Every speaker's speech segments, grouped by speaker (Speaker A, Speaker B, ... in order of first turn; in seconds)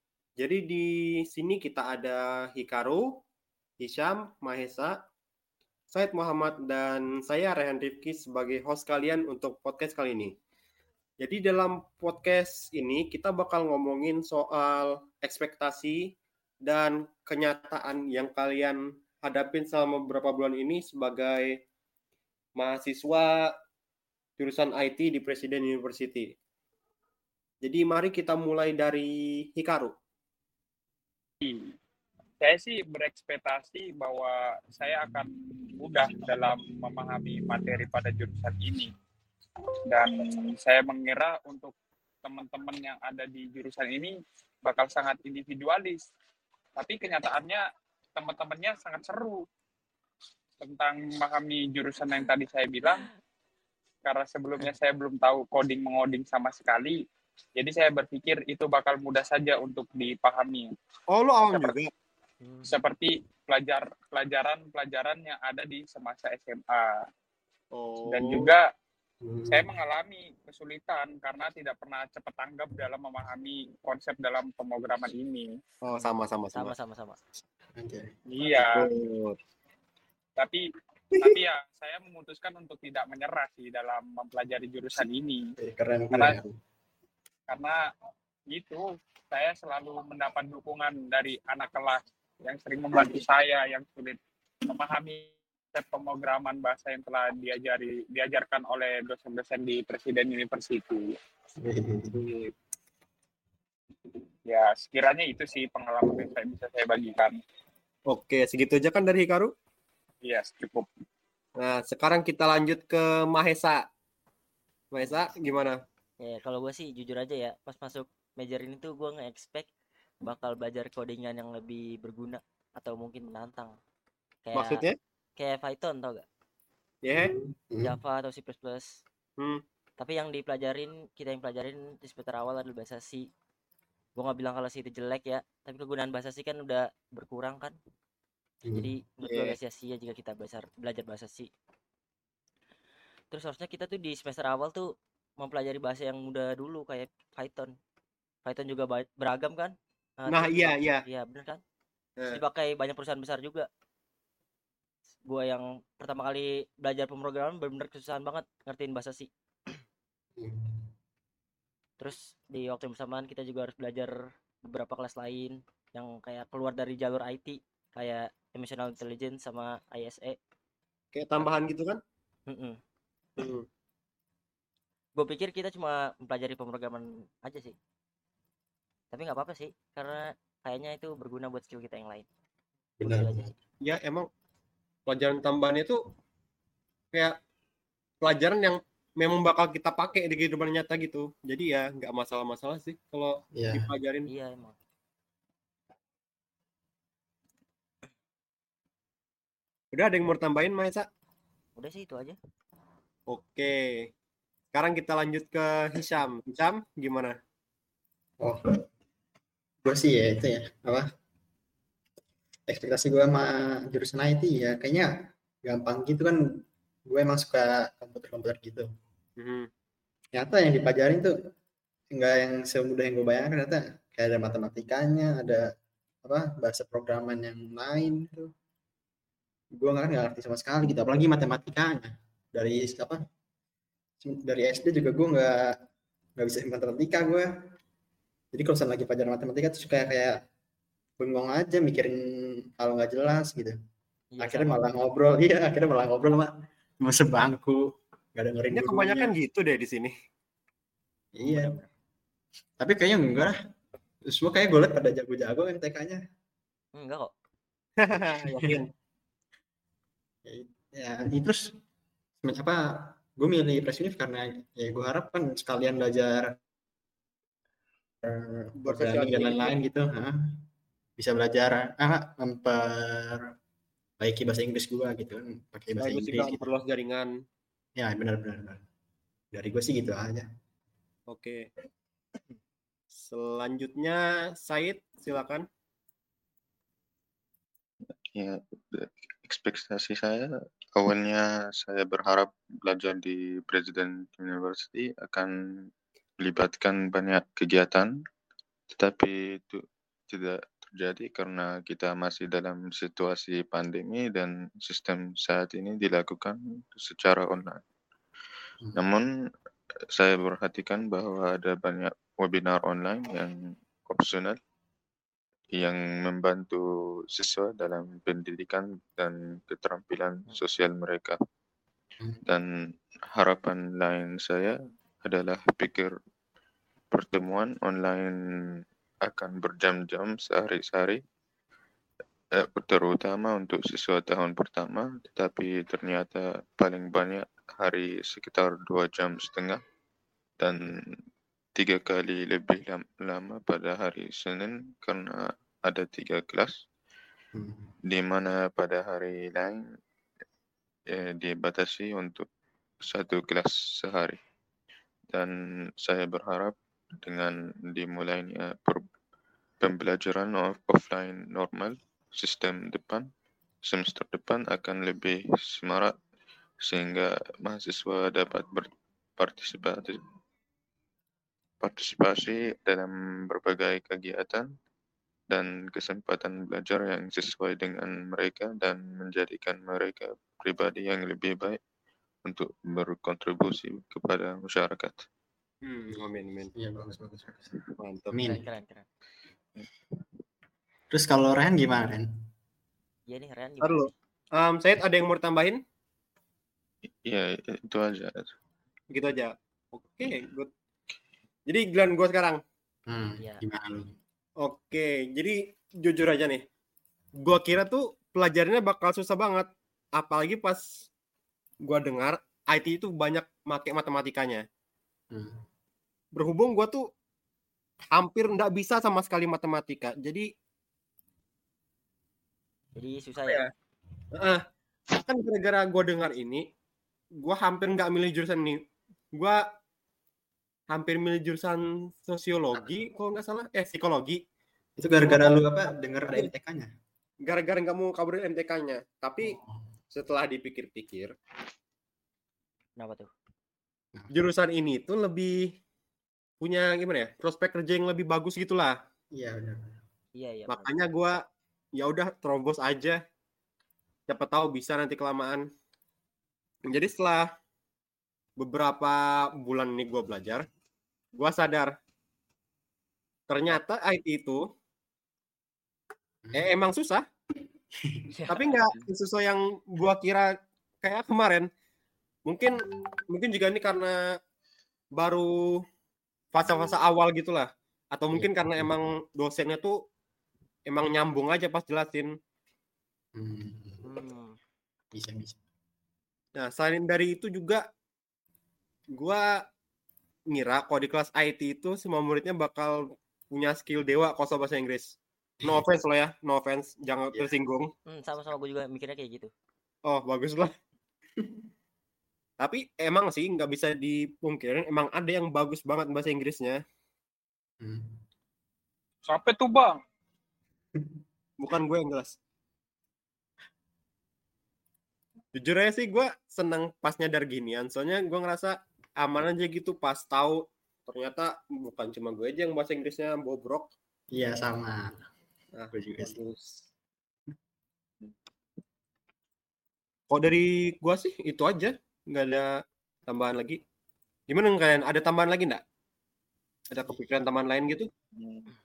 Speaker A: 0.4-3.2, 3.8-5.0, 5.9-10.3, 11.2-16.0, 16.7-21.5, 22.6-23.4, 24.4-26.3, 27.6-29.9, 61.1-61.9, 67.7-68.5, 75.8-76.7, 78.5-79.4, 102.2-102.5, 108.1-109.5, 111.6-113.8, 114.9-115.8, 124.5-125.0, 127.0-127.3, 139.2-139.6, 150.3-151.0, 171.1-172.0, 173.4-173.7, 183.8-184.3, 185.1-186.0, 188.2-194.3, 199.9-201.1, 203.3-203.8, 204.7-207.4, 219.4-219.7, 248.7-250.1, 258.0-258.9, 268.8-269.8, 276.0-277.3, 281.3-281.6, 283.1-285.6, 385.8-386.7, 388.0-388.4, 393.8-395.8, 399.1-400.7, 401.7-402.6, 404.6-406.6, 407.4-411.0, 411.8-414.6, 416.4-417.1, 418.1-420.4, 423.4-423.7, 424.3-426.6, 427.4-428.8, 429.3-429.6, 430.9-434.4, 437.4-439.6, 440.1-441.3, 444.3-445.6, 446.6-448.9, 450.7-451.4, 452.0-453.2, 454.3-455.6, 456.9-457.5, 458.6-460.7, 461.4-461.9, 463.5-464.6, 466.6-467.2, 468.5-470.5, 471.0-471.7, 472.5-472.8, 473.3-474.1, 475.1-475.6, 476.5-479.9, 480.9-482.3, 486.6-487.8, 489.1-489.4, 490.5-493.0, 493.5-497.9, 500.1-500.7, 502.6-506.8, 511.6-512.4, 515.5-523.9, 525.7-526.8, 530.3-532.7, 533.3-533.8, 534.5-535.8, 536.9-538.1
Speaker B: 32.4-38.9, 39.9-44.1, 44.6-46.0, 46.8-47.6, 48.2-49.4, 50.6-53.1, 54.0-57.0, 57.6-60.7, 61.5-61.8, 62.6-67.0, 68.1-68.6, 69.5-75.5, 78.3-78.8, 80.4-80.6, 81.2-85.4, 87.5-87.8, 88.5-101.1, 104.5-107.4, 110.2-110.9, 509.3-510.0
Speaker C: 62.4-62.7, 75.9-77.2, 116.2-119.7, 120.2-123.8, 124.5-124.8, 125.4-126.3, 127.8-128.9, 130.0-133.3, 134.2-137.8, 138.7-141.5, 143.3-147.7, 148.4-151.6, 152.3-153.7, 155.2-159.3, 162.0-170.4, 172.5-172.8, 175.2-177.8, 179.1-182.3, 183.0-183.5, 194.3-194.8, 201.8-202.4, 244.3-244.8, 256.9-257.3, 388.4-389.1, 393.3-394.1, 403.4-403.6, 423.0-423.6, 443.0-443.3, 450.4-451.0, 468.3-469.1, 484.0-484.6, 498.1-499.5
Speaker D: 69.2-69.7, 77.7-78.1, 85.6-86.5, 101.6-102.3, 127.1-128.0, 138.6-138.9, 160.4-160.9, 183.0-183.5, 193.6-193.9, 209.8-211.1, 212.7-215.1, 215.7-216.4, 217.1-218.9, 220.3-221.3, 222.1-225.6, 226.2-228.5, 229.8-233.2, 234.2-235.7, 236.4-237.5, 238.5-240.4, 241.2-242.2, 242.8-243.8, 244.4-246.5, 247.0-247.8, 248.3-249.3, 251.3-251.8, 252.8-253.6, 254.3-256.2, 258.1-258.8, 260.5-261.7, 262.4-266.5, 268.2-270.4, 271.2-273.4, 274.2-276.7, 278.0-278.8, 279.5-280.4, 347.6-347.9, 386.8-387.8, 388.3-388.6, 391.1-392.3, 403.1-404.1, 435.0-436.9, 449.4-450.0, 478.3-478.9, 483.4-484.1, 485.1-485.6, 524.3-525.2, 525.9-526.4
Speaker E: 288.1-295.5, 296.4-298.1, 298.9-307.8, 308.9-309.3, 310.1-314.6, 315.7-316.8, 317.3-321.4, 323.3-326.1, 327.1-328.4, 329.2-331.2, 332.6-339.8, 340.6-341.0, 341.8-346.7, 348.1-349.8, 351.1-352.4, 353.1-354.4, 355.3-359.0, 359.8-363.3, 363.8-366.1, 366.9-370.2, 371.8-374.7, 375.5-381.8, 382.4-385.2, 397.1-398.5